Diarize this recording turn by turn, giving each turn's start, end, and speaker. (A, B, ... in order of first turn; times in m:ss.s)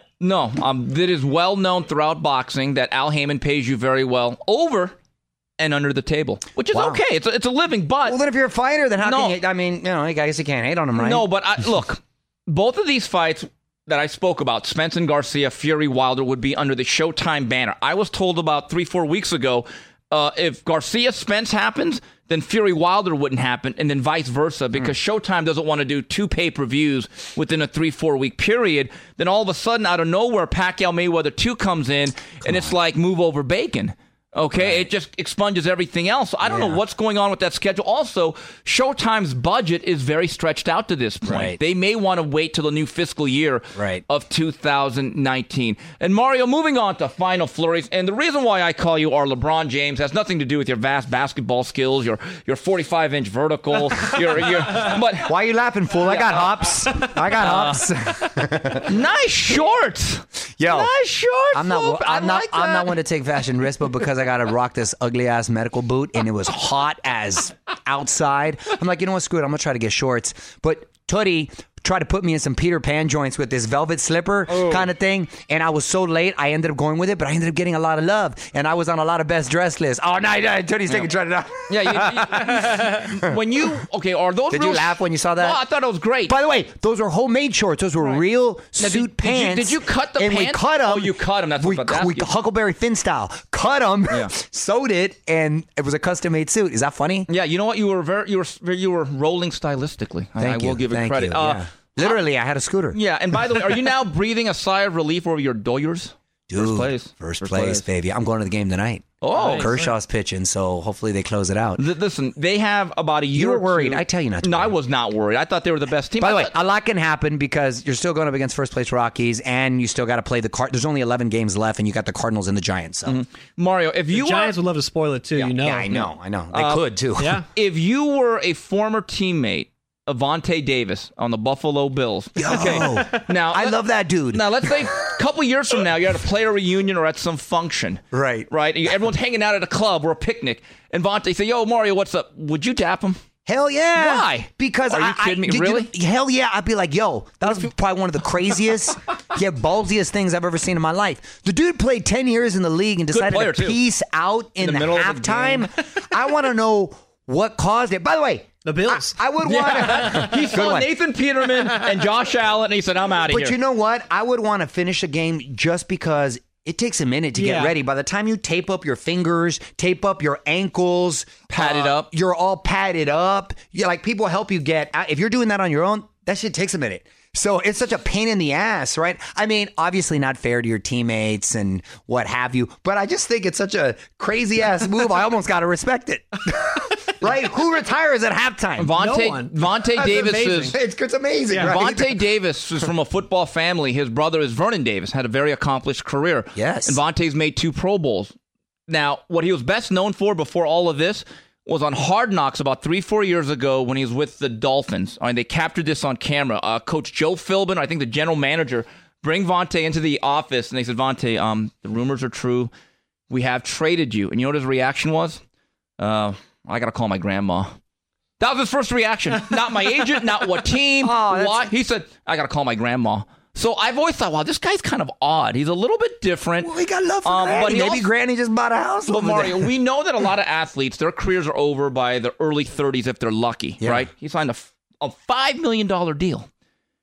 0:00.2-0:05.0 A
0:05.6-0:08.2 A
0:06.7-0:07.0 B
0:08.0-0:11.2 B
0:09.0-0:09.4 A
0:11.0-0:55.3 A
0:32.4-0:32.7 B
0:34.5-0:34.8 B
0:36.4-0:36.8 B
0:41.2-0:41.6 B
0:43.7-0:44.0 B
0:55.2-0:58.9 B
0:57.4-0:57.9 A
0:58.8-1:03.0 A
1:00.6-1:00.9 B
1:01.5-1:23.4 B
1:14.5-1:14.9 A
1:21.7-1:26.4 A
1:24.5-1:25.6 B
1:26.3-1:37.3 B
1:28.8-1:32.3 A
1:37.3-1:42.2 A
1:40.4-1:43.0 B
1:42.9-1:47.8 A
1:46.5-1:51.8 B
1:49.2-1:49.8 A
1:49.4-1:49.8 C
1:51.8-1:56.5 A
1:53.3-1:54.7 B
1:56.2-2:03.2 B
2:03.0-2:04.5 A
2:04.1-2:05.9 C
2:05.3-2:06.8 A
2:05.6-2:07.4 B
2:07.2-2:07.5 C
2:07.5-2:13.8 A
2:12.4-2:14.8 B
2:14.3-2:23.2 A
2:18.1-2:18.5 B
2:23.4-2:40.9 B
2:24.0-2:25.9 A
2:33.1-2:33.8 A
2:34.6-2:35.7 A
2:38.6-2:39.5 C
2:39.4-2:43.6 A
2:43.2-3:08.9 B
2:47.3-2:47.7 C
2:51.5-2:52.1 A
3:08.8-3:10.7 A
3:08.9-3:10.7 C
3:10.0-3:12.2 B
3:11.5-3:11.8 C
3:11.6-3:18.3 A
3:16.6-3:17.0 B
3:18.9-3:32.7 A
3:33.3-3:35.4 A
3:36.0-3:37.8 A
3:38.4-3:46.7 A
3:41.0-3:41.7 B
3:46.6-3:49.7 B
3:47.2-3:48.0 A
3:49.1-3:56.5 A
3:53.8-3:54.1 B